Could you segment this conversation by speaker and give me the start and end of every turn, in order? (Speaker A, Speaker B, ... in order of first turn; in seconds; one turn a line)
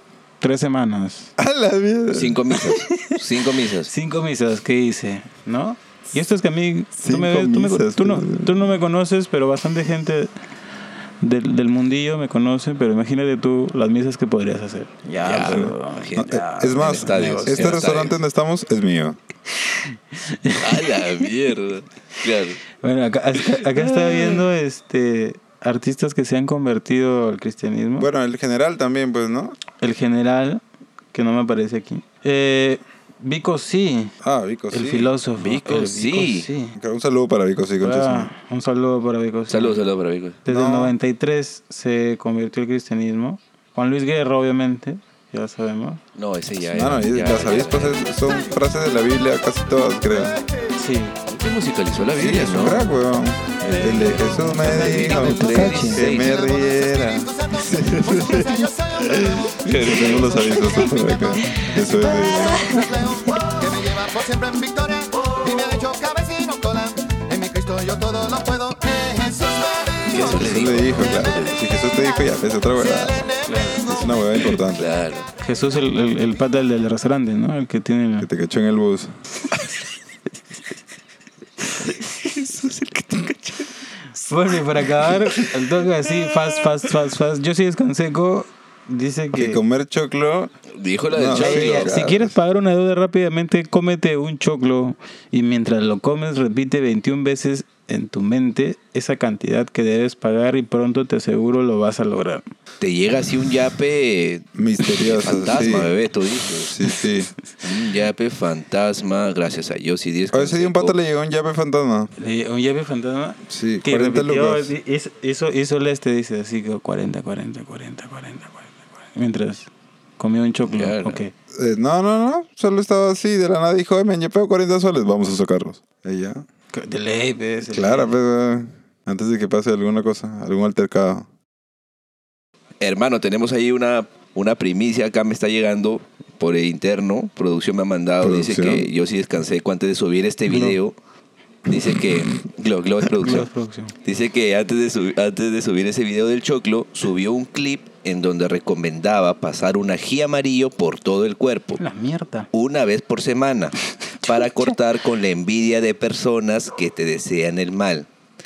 Speaker A: 0.4-1.3
Speaker B: 1.4-2.6
Speaker C: 2.1-3.9
Speaker A: 2.6-3.2
Speaker A: 3.9-10.3
Speaker B: 7.0-8.8
Speaker A: 11.2-17.7
Speaker C: 15.2-18.2
Speaker B: 15.4-19.2
Speaker A: 20.1-21.1
Speaker C: 20.6-22.6
Speaker A: 22.8-28.1
Speaker C: 23.4-24.5
Speaker B: 28.0-29.6
Speaker A: 29.8-30.6
Speaker A: 31.1-34.1
Speaker B: 34.2-35.1
Speaker A: 34.7-36.8
Speaker C: 35.4-36.5
Speaker B: 36.8-38.3
Speaker A: 37.8-39.8
Speaker C: 39.5-40.4
Speaker A: 40.5-46.0
Speaker B: 40.5-41.0
Speaker C: 46.1-48.0
Speaker B: 46.6-50.4
Speaker A: 50.8-51.2
Speaker C: 51.3-52.8
Speaker B: 52.2-62.7
Speaker C: 53.6-56.3
Speaker D: 54.6-71.3
Speaker A: 55.1-56.0
Speaker C: 59.6-60.5
Speaker C: 70.1-71.6
Speaker B: 70.2-74.9
Speaker D: 71.8-74.5
Speaker A: 73.5-73.9
Speaker C: 74.6-75.3
Speaker A: 75.4-78.3
Speaker B: 78.2-79.1
Speaker C: 81.7-83.7
Speaker A: 84.1-89.6
Speaker C: 85.1-85.5
Speaker C: 86.2-86.9
Speaker B: 89.3-90.5
Speaker C: 90.8-92.0
Speaker B: 91.1-92.3
Speaker A: 91.3-102.5
Speaker C: 102.8-106.8
Speaker B: 104.5-105.9
Speaker B: 106.6-107.3
Speaker C: 107.6-111.0
Speaker B: 110.3-112.1
Speaker A: 112.2-121.3
Speaker B: 113.5-114.7
Speaker C: 120.6-121.2
Speaker B: 121.5-126.5
Speaker A: 126.7-128.2
Speaker B: 127.6-131.3
Speaker C: 132.8-141.0
Speaker B: 138.2-138.9
Speaker A: 140.5-140.8
Speaker C: 141.7-143.5
Speaker A: 143.2-143.9
Speaker C: 144.0-151.8
Speaker A: 151.8-152.5
Speaker C: 152.5-158.1
Speaker A: 154.1-154.8